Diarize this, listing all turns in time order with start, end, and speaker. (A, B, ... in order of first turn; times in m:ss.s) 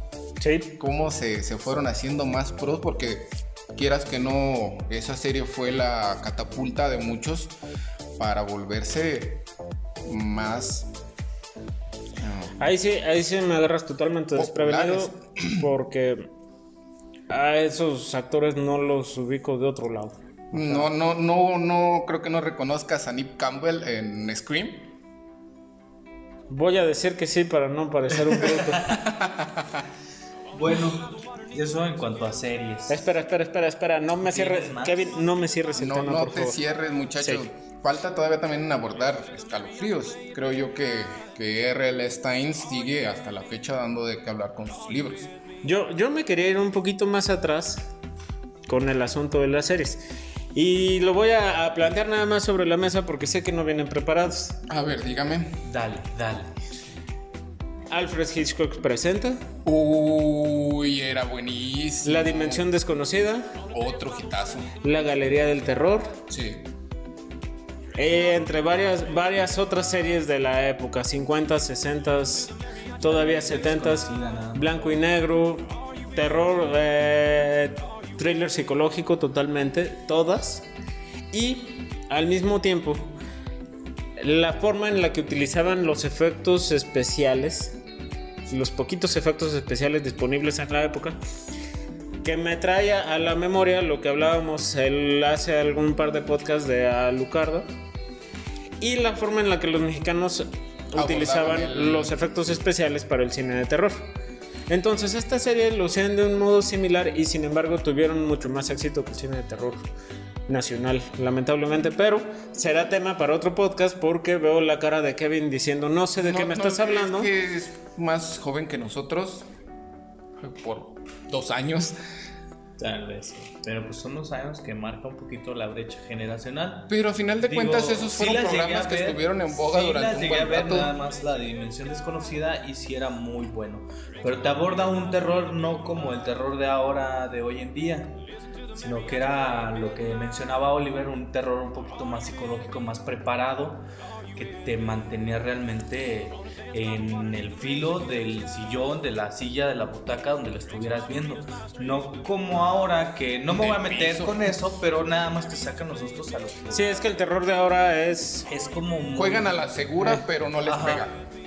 0:00.4-0:00.7 A
0:00.8-0:07.5 B
0:08.2-0:09.4 B
0:10.0-0:10.9 B
0:12.2-0:12.6 B
0:12.6-0:16.3 A
0:14.3-0:15.6 B
0:17.3-0:20.9 A
0:20.5-0:24.9 B
0:26.5-0:28.9 A
0:28.9-0:29.8 B
0:30.5-0:33.1 C
0:32.9-0:36.6 A
0:34.2-0:35.1 C
0:35.8-0:45.3 B
0:45.6-0:47.9 A
0:48.7-0:50.0 A
0:50.5-0:54.6 A
0:54.7-0:55.6 B
0:55.6-0:56.5 C
0:57.9-0:59.4 A
0:59.6-1:02.6 B
1:02.0-1:03.5 A
1:03.7-1:04.7 B
1:04.8-1:06.1 A
1:06.3-1:06.6 B
1:08.0-1:20.7 A
1:13.0-1:15.0 C
1:21.3-1:23.1 A
1:24.2-1:27.8 A
1:28.5-1:31.2 A
1:32.2-1:37.7 A
1:38.8-1:44.0 A
1:40.9-1:42.1 B
1:44.7-1:49.8 A
1:50.5-1:57.3 A
1:56.2-1:59.4 B
2:00.4-2:02.0 B
2:02.8-2:18.2 C
2:06.9-2:10.9 B
2:18.7-2:37.0 C
2:33.5-2:34.4 B
2:36.7-2:38.5 A
2:38.5-2:39.7 C
2:39.1-2:41.1 B
2:40.6-2:41.1 C